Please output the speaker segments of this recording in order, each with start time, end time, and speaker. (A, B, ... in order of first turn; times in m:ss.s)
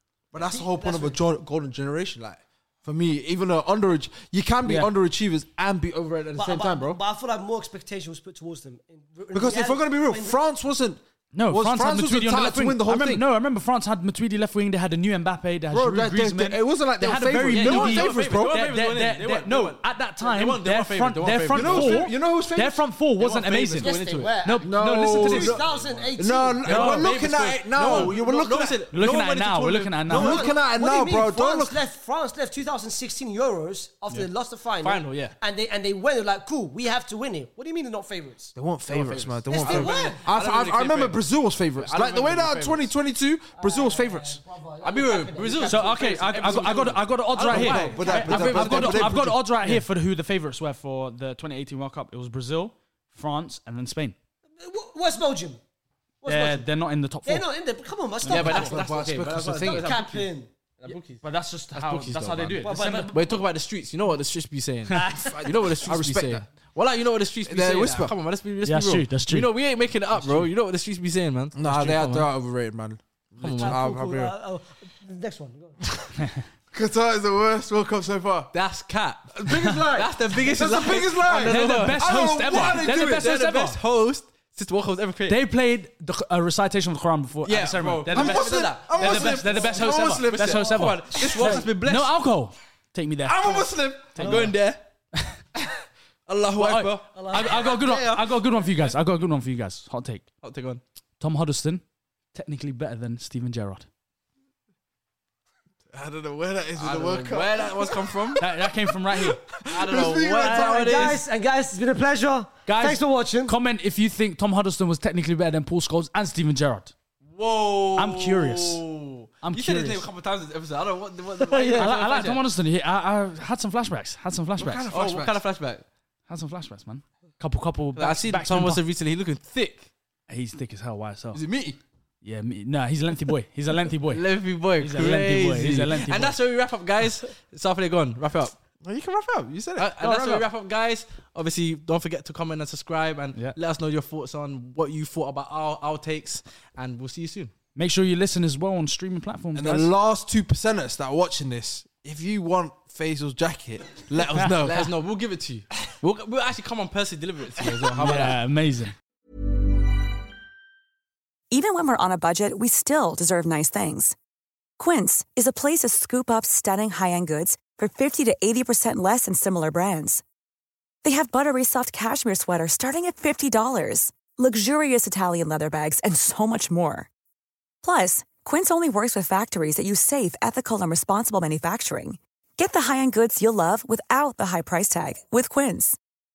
0:00.3-0:07.0 A
0:00.3-0:01.2 B
0:06.3-0:10.4 B
0:09.3-0:13.2 A
0:11.3-0:25.6 C
0:15.7-0:18.6 A
0:17.5-0:22.1 D
0:21.5-0:22.8 A
0:23.2-0:24.4 D
0:23.8-0:26.6 B
0:24.6-0:25.6 A
0:25.6-0:30.2 D
0:26.2-0:28.8 A
0:26.6-0:27.1 C
0:27.8-0:28.1 C
0:28.9-0:30.5 C
0:30.1-0:31.8 A
0:30.1-0:38.5 B
0:34.8-0:35.3 D
0:38.5-0:44.4 A
0:38.9-0:42.9 D
0:39.5-0:40.2 B
0:43.6-0:46.0 B
0:44.8-0:49.1 D
0:45.6-0:54.1 C
0:47.5-0:49.5 A
0:47.7-0:48.4 B
0:54.6-0:55.6 B
0:56.2-0:56.7 B
0:56.2-0:57.5 C
0:57.2-0:58.8 B
0:58.2-0:59.9 A
0:58.2-1:00.3 D
0:59.5-1:00.5 B
1:00.8-1:12.3 D
1:00.8-1:03.1 C
1:02.6-1:03.4 B
1:04.9-1:05.4 B
1:05.2-1:06.4 A
1:07.4-1:08.1 A
1:08.6-1:09.5 C
1:11.5-1:14.3 A
1:13.4-1:13.8 D
1:13.6-1:15.8 B
1:16.7-1:18.5 A
1:18.5-1:25.4 D
1:19.3-1:23.2 A
1:21.3-1:23.8 C
1:25.3-1:34.5 C
1:27.4-1:32.1 D
1:28.1-1:31.6 A
1:30.8-1:31.6 B
1:33.2-1:34.8 D
1:34.2-1:34.5 B
1:35.1-1:35.4 C
1:36.3-1:38.7 D
1:36.5-1:40.3 C
1:37.1-1:37.7 B
1:40.4-1:40.8 D
1:41.2-1:41.8 C
1:42.3-1:43.8 C
1:45.9-1:48.4 A
1:46.8-1:48.4 D
1:48.4-1:49.4 C
1:49.1-1:51.2 A
1:49.7-1:51.2 D
1:50.2-1:53.5 B
1:52.7-1:56.9 C
1:57.2-2:02.4 D
1:58.0-1:58.8 C
1:59.4-2:00.1 C
2:01.4-2:01.9 B
2:01.7-2:04.8 C
2:04.6-2:05.4 A
2:04.9-2:05.8 D
2:06.3-2:08.8 C
2:08.0-2:09.9 D
2:10.3-2:11.4 C
2:11.3-2:11.8 A
2:12.2-2:14.2 C
2:14.1-2:18.6 D
2:14.8-2:16.4 C
2:18.8-2:20.0 A
2:19.8-2:27.5 D
2:20.0-2:20.4 C
2:27.8-2:29.9 C
2:29.5-2:34.9 A
2:34.2-2:38.4 D
2:38.0-2:38.9 C
2:41.5-2:44.1 E
2:44.8-2:50.2 E
2:51.0-2:57.1 E
2:57.8-3:06.0 E